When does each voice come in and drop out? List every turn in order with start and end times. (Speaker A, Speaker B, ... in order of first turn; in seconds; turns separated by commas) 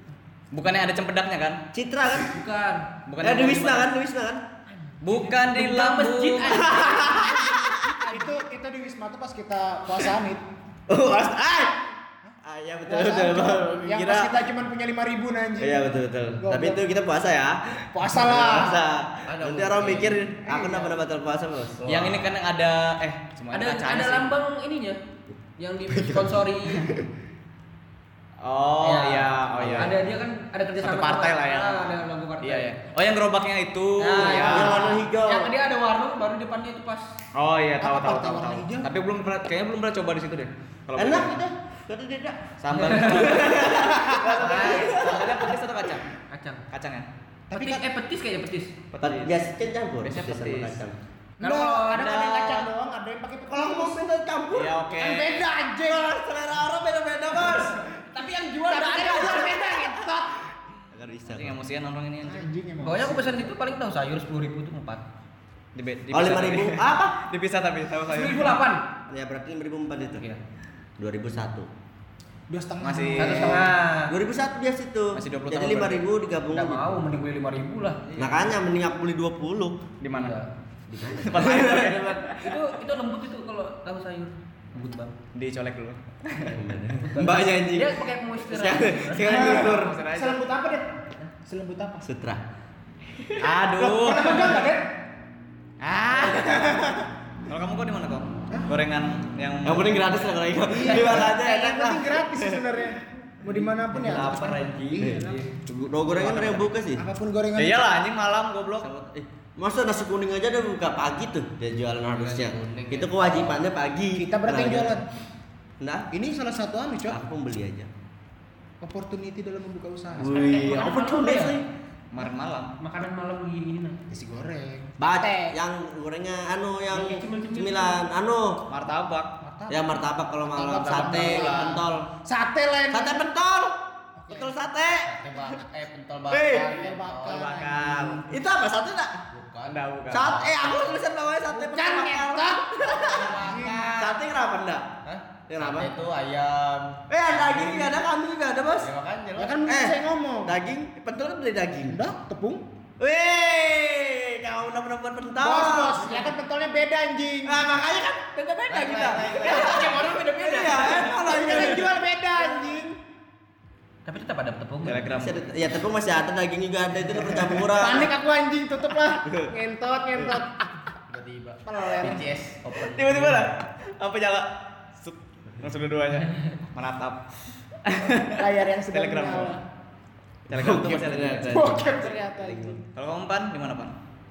Speaker A: 0.5-1.6, Speaker B: 1.7-2.3, Speaker C: 2.1-2.9, Speaker A: 3.1-3.9, Speaker B: 3.2-4.4, Speaker C: 4.8-8.4, Speaker A: 5.0-6.7, Speaker B: 6.4-7.5, Speaker D: 8.0-10.4, Speaker B: 10.9-11.8, Speaker D: 12.2-15.8, Speaker B: 12.4-14.3, Speaker B: 15.6-21.8, Speaker D: 16.4-16.8, Speaker D: 17.9-18.8, Speaker E: 19.3-20.2, Speaker E: 21.8-22.2, Speaker A: 21.9-24.3, Speaker C: 23.5-25.0, Speaker C: 25.6-26.9, Speaker B: 25.9-27.0, Speaker A: 28.4-29.9, Speaker C: 28.8-32.7, Speaker B: 29.6-29.9, Speaker A: 30.8-34.8, Speaker C: 34.0-37.0, Speaker B: 34.2-35.5, Speaker A: 37.4-41.4, Speaker D: 37.8-38.9, Speaker B: 41.0-45.5, Speaker A: 42.6-46.0, Speaker C: 42.8-43.3, Speaker C: 44.4-44.9, Speaker C: 46.3-46.6, Speaker A: 46.7-47.1, Speaker D: 47.5-47.8, Speaker C: 47.5-48.7, Speaker A: 48.9-49.4, Speaker B: 49.0-51.0, Speaker A: 50.0-50.8, Speaker C: 51.4-52.1, Speaker D: 51.4-54.0, Speaker A: 51.9-52.7, Speaker B: 53.5-54.8, Speaker A: 54.5-55.4, Speaker D: 55.0-56.1, Speaker B: 55.8-57.9, Speaker C: 58.1-59.7, Speaker D: 58.7-60.4, Speaker B: 60.9-61.6, Speaker A: 61.3-62.4, Speaker D: 62.2-63.5, Speaker C: 62.8-65.0, Speaker A: 65.7-68.6, Speaker B: 66.1-67.2, Speaker C: 68.1-68.8, Speaker B: 69.1-70.2, Speaker B: 71.0-71.7, Speaker D: 72.5-73.7, Speaker A: 72.8-73.7, Speaker C: 73.2-74.1, Speaker B: 74.1-77.2, Speaker A: 75.1-76.0, Speaker C: 76.5-78.0, Speaker B: 78.2-79.8, Speaker A: 80.0-80.4, Speaker C: 80.1-80.5, Speaker E: 80.9-81.2, Speaker B: 81.0-82.3, Speaker A: 81.2-82.4, Speaker C: 82.4-85.1, Speaker A: 85.3-86.6, Speaker B: 86.5-90.0, Speaker C: 87.0-89.2, Speaker A: 89.2-90.4, Speaker D: 89.3-90.9, Speaker D: 91.4-92.0, Speaker B: 92.0-92.4, Speaker A: 93.4-94.6, Speaker D: 93.8-94.9, Speaker A: 95.8-96.9, Speaker D: 96.1-96.9, Speaker A: 97.5-100.1, Speaker B: 99.6-102.6, Speaker D: 100.7-105.4, Speaker B: 103.9-107.0, Speaker A: 103.9-105.3, Speaker D: 107.0-107.9, Speaker A: 107.5-108.9, Speaker B: 108.8-115.0, Speaker E: 112.1-113.6, Speaker D: 114.2-115.0, Speaker B: 115.8-116.1, Speaker D: 116.1-117.2, Speaker B: 117.1-117.9, Speaker D: 118.8-120.4, Speaker B: 120.1-121.7, Speaker C: 120.2-121.6, Speaker A: 122.1-122.7, Speaker C: 122.8-124.0, Speaker D: 124.1-125.5, Speaker B: 125.0-128.6, Speaker C: 126.9-128.0, Speaker A: 128.7-129.3, Speaker D: 129.4-130.0, Speaker B: 129.7-132.1, Speaker D: 130.5-133.2, Speaker A: 130.7-131.8, Speaker B: 132.9-133.8, Speaker D: 134.2-134.5, Speaker B: 134.3-135.1, Speaker E: 135.0-137.5, Speaker B: 136.3-136.8, Speaker D: 136.7-138.2, Speaker A: 137.2-138.2, Speaker B: 138.2-139.2, Speaker E: 139.3-140.7, Speaker A: 139.7-140.4, Speaker B: 140.1-144.9, Speaker D: 141.5-143.9, Speaker E: 143.1-144.1, Speaker E: 145.0-147.9, Speaker B: 145.5-145.9, Speaker B: 147.1-148.9, Speaker E: 148.8-149.6, Speaker D: 149.4-150.6, Speaker B: 149.6-152.0, Speaker D: 151.9-152.6, Speaker B: 153.0-156.2, Speaker D: 155.4-157.7, Speaker B: 157.4-162.8, Speaker C: 158.3-161.4, Speaker D: 158.8-160.0, Speaker D: 161.0-163.0, Speaker C: 164.1-165.2, Speaker A: 164.8-165.4, Speaker B: 165.1-168.1, Speaker D: 167.7-170.6, Speaker B: 169.2-169.5, Speaker E: 171.1-173.5, Speaker D: 171.6-172.3, Speaker A: 172.8-177.2, Speaker A: 177.8-179.6, Speaker D: 178.3-179.6, Speaker A: 180.5-182.1, Speaker B: 180.5-182.8, Speaker D: 181.5-182.8, Speaker A: 182.9-183.9